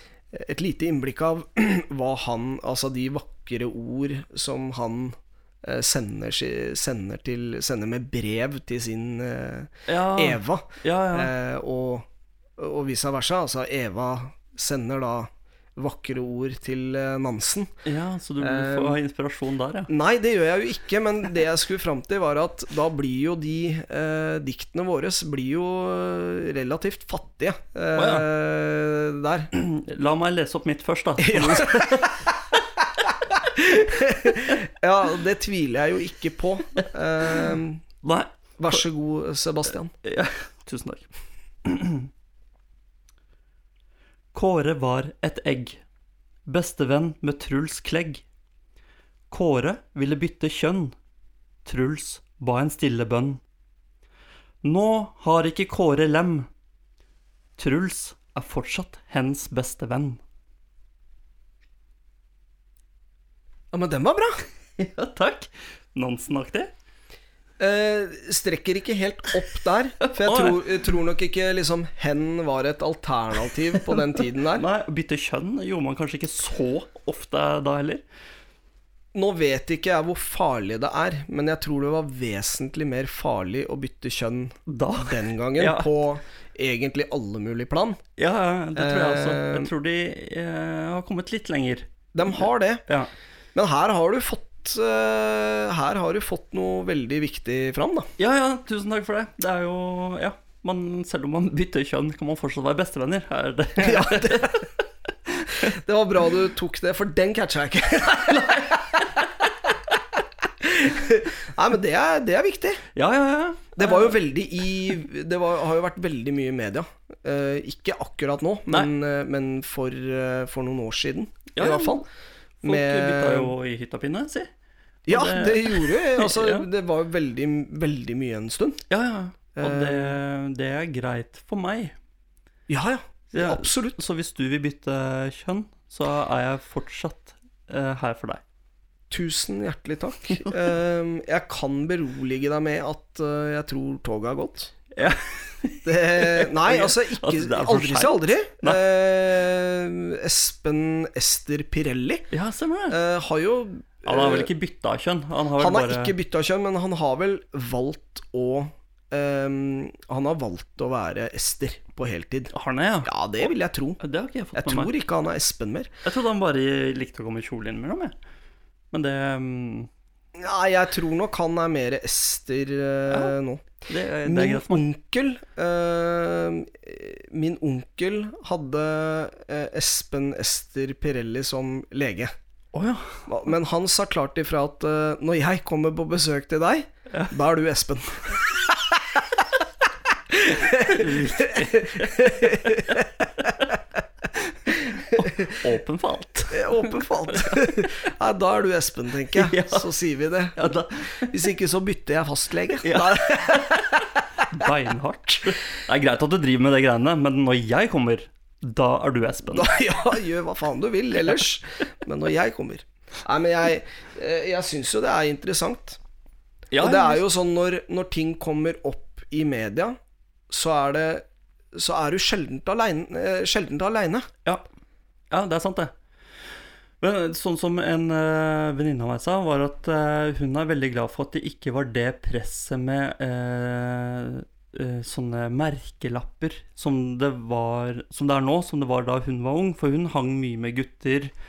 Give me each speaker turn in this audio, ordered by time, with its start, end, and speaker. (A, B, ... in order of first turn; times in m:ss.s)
0:00.3-0:17.7 A
0:09.9-0:11.3 B
0:17.8-0:19.9 B
0:18.4-0:19.0 A
0:19.9-0:29.5 A
0:28.0-0:28.3 B
0:29.5-0:32.3 B
0:31.2-0:37.8 A
0:38.0-0:38.8 B
0:38.6-0:39.9 A
0:40.0-0:41.1 B
0:41.6-0:42.1 B
0:44.3-0:45.8 B
0:46.5-0:48.2 B
0:49.3-0:51.0 B
0:51.6-0:53.4 B
0:54.6-0:56.5 B
0:57.6-1:00.2 B
1:03.7-1:04.4 A
1:04.8-1:06.7 B
1:07.6-1:14.6 A
1:10.0-1:10.6 B
1:14.5-1:18.0 B
1:19.1-1:28.0 A
1:24.7-1:25.9 B
1:28.2-1:33.1 B
1:28.8-1:29.7 A
1:32.1-1:32.8 A
1:33.6-1:38.1 A
1:38.2-1:44.7 B
1:43.8-1:44.7 A
1:45.3-1:45.7 B
1:45.6-1:50.0 A
1:48.3-1:48.7 B
1:50.6-1:52.8 A
1:53.0-1:54.2 B
1:53.8-2:02.1 A
2:01.5-2:02.0 B
2:02.6-2:04.5 B
2:02.6-2:03.5 A
2:05.1-2:08.8 A
2:05.1-2:06.7 B
2:08.9-2:12.0 B
2:09.6-2:10.2 A
2:12.7-2:14.0 A
2:13.3-2:18.4 B
2:19.1-2:24.7 A
2:25.0-2:28.8 B
2:25.8-2:32.2 A
2:32.3-2:33.0 B
2:32.9-2:34.5 A
2:34.0-2:36.1 B
2:35.6-2:42.5 A
2:42.5-2:43.5 B
2:43.0-2:44.0 A
2:44.0-2:44.9 B
2:44.6-2:45.9 A
2:46.0-2:48.1 B
2:48.9-2:49.9 B
2:50.4-2:53.6 A
2:53.1-2:53.4 B
2:53.9-2:54.9 B
2:54.2-3:02.3 A
3:02.7-3:03.2 B
3:03.3-3:09.2 A
3:10.3-3:13.3 A
3:10.5-3:13.7 B
3:14.4-3:17.5 B
3:14.9-3:15.6 A
3:16.5-3:20.6 A
3:19.3-3:19.9 B
3:20.6-3:21.3 B
3:21.3-3:24.2 A
3:22.8-3:29.8 B
3:29.5-3:36.0 A
3:36.7-3:37.2 B
3:36.8-3:40.0 A
3:40.5-3:44.3 A
3:45.3-3:45.9 B
3:47.0-4:01.3 B